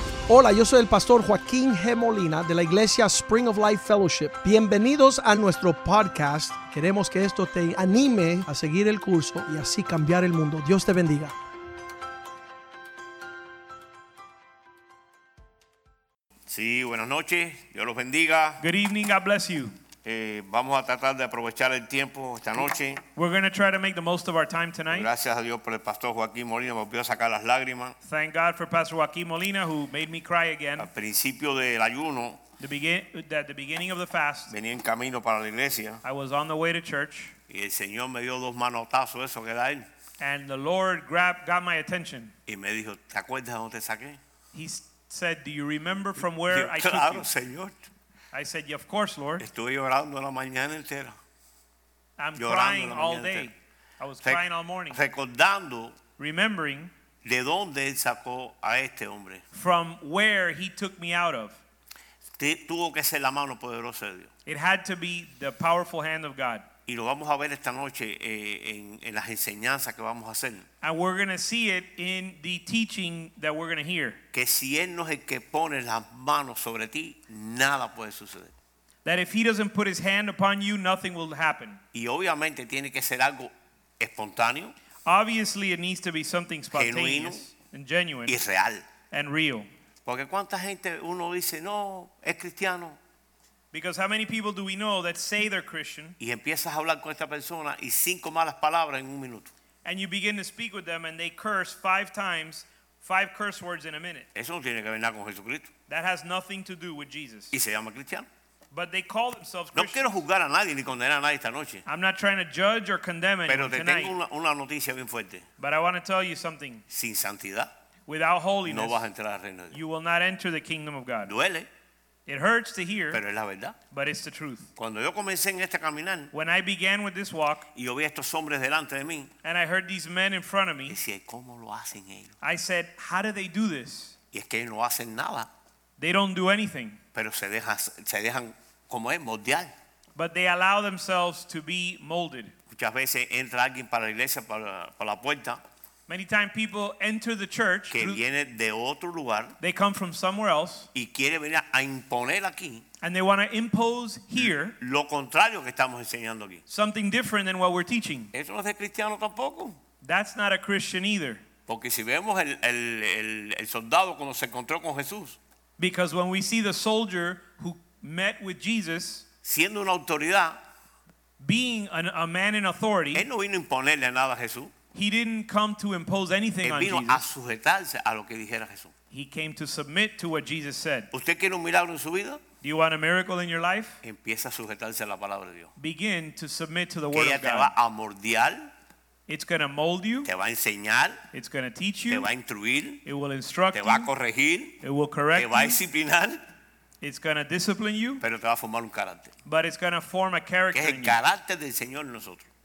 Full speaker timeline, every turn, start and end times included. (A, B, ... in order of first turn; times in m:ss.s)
0:00.3-0:11.3 A
0:16.5-0:18.6 B
0:18.6-0:19.7 C
0:20.0-0:23.0 B
0:23.2-0:25.1 C
0:24.9-0:28.0 B
0:28.0-0:30.9 C
0:30.8-0:32.4 B
0:32.6-0:34.5 C
0:34.5-0:36.0 B
0:36.0-0:37.3 C
0:37.5-0:39.9 B
0:40.2-0:42.3 C
0:42.5-0:44.2 B
0:44.5-0:47.3 C
0:46.4-0:47.8 B
0:48.3-0:49.4 C
0:49.4-0:51.2 B
0:52.2-0:55.0 C
0:52.4-0:53.5 B
0:54.2-0:56.0 B
0:56.2-0:56.9 C
0:57.2-0:59.4 B
0:59.5-1:01.6 C
1:02.4-1:04.3 B
1:04.4-1:06.6 C
1:06.9-1:10.6 B
1:10.8-1:14.2 C
1:14.3-1:18.5 B
1:19.0-1:21.8 C
1:21.9-1:24.7 B
1:25.0-1:28.4 C
1:26.7-1:27.5 B
1:28.3-1:28.8 B
1:29.1-1:29.7 C
1:30.0-1:33.0 B
1:33.7-1:36.2 C
1:36.2-1:39.5 B
1:39.8-1:44.3 C
1:44.3-1:45.7 B
1:45.9-1:47.5 C
1:47.5-1:48.3 B
1:48.7-1:50.2 C
1:49.7-1:51.8 B
1:51.8-1:54.1 C
1:53.5-1:55.4 B
1:55.6-1:56.8 C
1:56.9-1:57.7 B
1:58.1-1:59.0 C
1:58.6-1:59.8 B
1:59.7-2:01.3 C
2:01.2-2:01.7 B
2:02.3-2:03.2 C
2:03.1-2:03.8 B
2:03.9-2:04.7 C
2:04.8-2:06.3 B
2:06.3-2:07.7 C
2:07.7-2:09.3 B
2:09.4-2:11.0 C
2:10.9-2:12.3 B
2:12.4-2:14.2 C
2:14.3-2:15.5 B
2:16.0-2:17.0 C
2:17.1-2:19.7 B
2:20.2-2:22.5 C
2:22.7-2:25.6 B
2:26.1-2:28.2 C
2:27.9-2:29.6 B
2:29.6-2:30.9 C
2:30.9-2:32.8 B
2:33.0-2:34.7 C
2:34.4-2:36.6 B
2:36.7-2:38.3 C
2:38.3-2:39.8 B
2:40.0-2:41.4 C
2:41.7-2:45.4 B
2:45.8-2:49.2 C
2:49.4-2:50.6 B
2:51.4-2:53.2 C
2:53.1-2:54.7 B
2:54.9-2:57.2 C
2:56.6-2:58.9 B
2:59.1-3:01.1 C
3:01.1-3:02.4 B
3:02.6-3:04.0 C
3:04.0-3:05.7 B
3:05.8-3:07.7 C
3:07.1-3:08.7 B
3:09.3-3:10.3 C
3:10.2-3:11.2 B
3:11.3-3:12.3 C
3:12.1-3:13.0 B
3:13.0-3:14.1 C
3:13.7-3:14.8 B
3:14.8-3:15.8 C
3:15.3-3:16.4 B
3:17.0-3:18.2 C
3:18.2-3:19.3 B
3:19.4-3:21.2 C
3:20.7-3:22.5 B